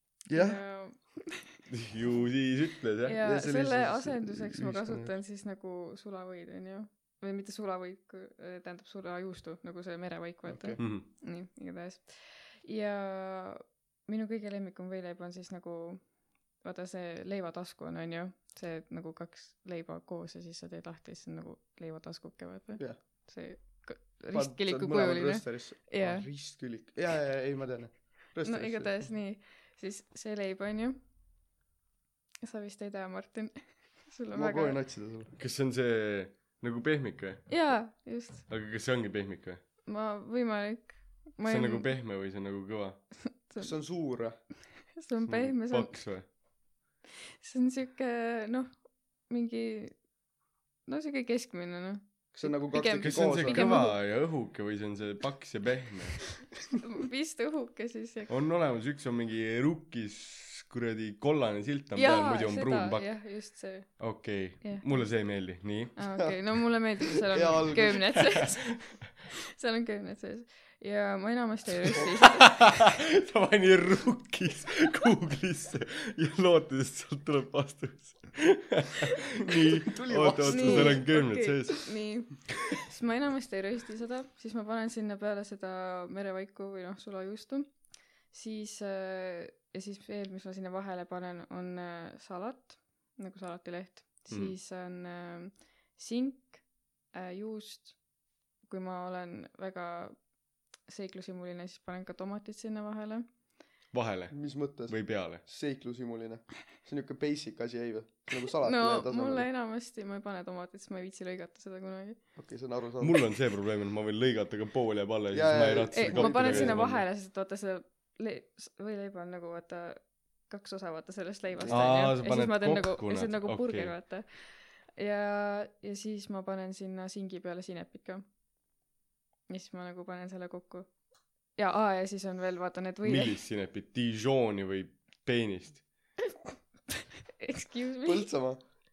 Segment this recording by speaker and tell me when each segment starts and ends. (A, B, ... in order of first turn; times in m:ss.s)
0:00.3-0:00.6 A
0:00.3-0:01.5 B
0:01.7-0:03.2 C
0:03.0-0:16.0 B
0:03.2-0:05.1 A
0:10.5-0:10.9 A
0:10.8-0:11.1 C
0:16.6-0:26.3 B
0:24.3-0:29.1 A
0:28.4-0:31.0 B
0:32.4-0:34.8 B
0:34.3-0:35.3 A
0:35.4-0:37.5 C
0:37.5-0:38.5 B
0:38.5-0:39.6 C
0:39.9-0:41.9 B
0:41.4-0:43.0 C
0:43.5-0:43.8 B
0:43.6-0:44.4 A
0:45.0-0:46.0 B
0:45.2-0:46.3 C
0:47.2-0:48.8 B
0:49.3-0:50.0 B
0:50.9-0:54.0 B
0:52.3-0:53.8 A
0:53.0-0:56.2 C
0:56.8-0:58.3 B
0:58.3-1:03.1 C
1:02.0-1:04.0 B
1:04.0-1:06.0 C
1:04.6-1:05.0 B
1:06.0-1:12.9 B
1:07.1-1:08.4 A
1:12.2-1:21.9 C
1:19.7-1:21.0 A
1:20.5-1:38.0 B
1:34.3-1:34.6 C
1:38.7-1:40.2 B
1:40.9-1:43.3 B
1:43.9-1:45.4 C
1:44.3-1:49.5 A
1:48.6-1:52.2 B
1:52.4-1:53.2 A
1:53.0-1:57.0 C
1:55.3-1:56.8 A
1:56.0-2:08.2 B
2:01.5-2:02.0 A
2:01.7-2:03.9 C
2:09.5-2:10.9 B
2:11.6-2:13.3 B
2:13.0-2:15.9 C
2:17.4-2:18.3 B
2:18.0-2:18.6 A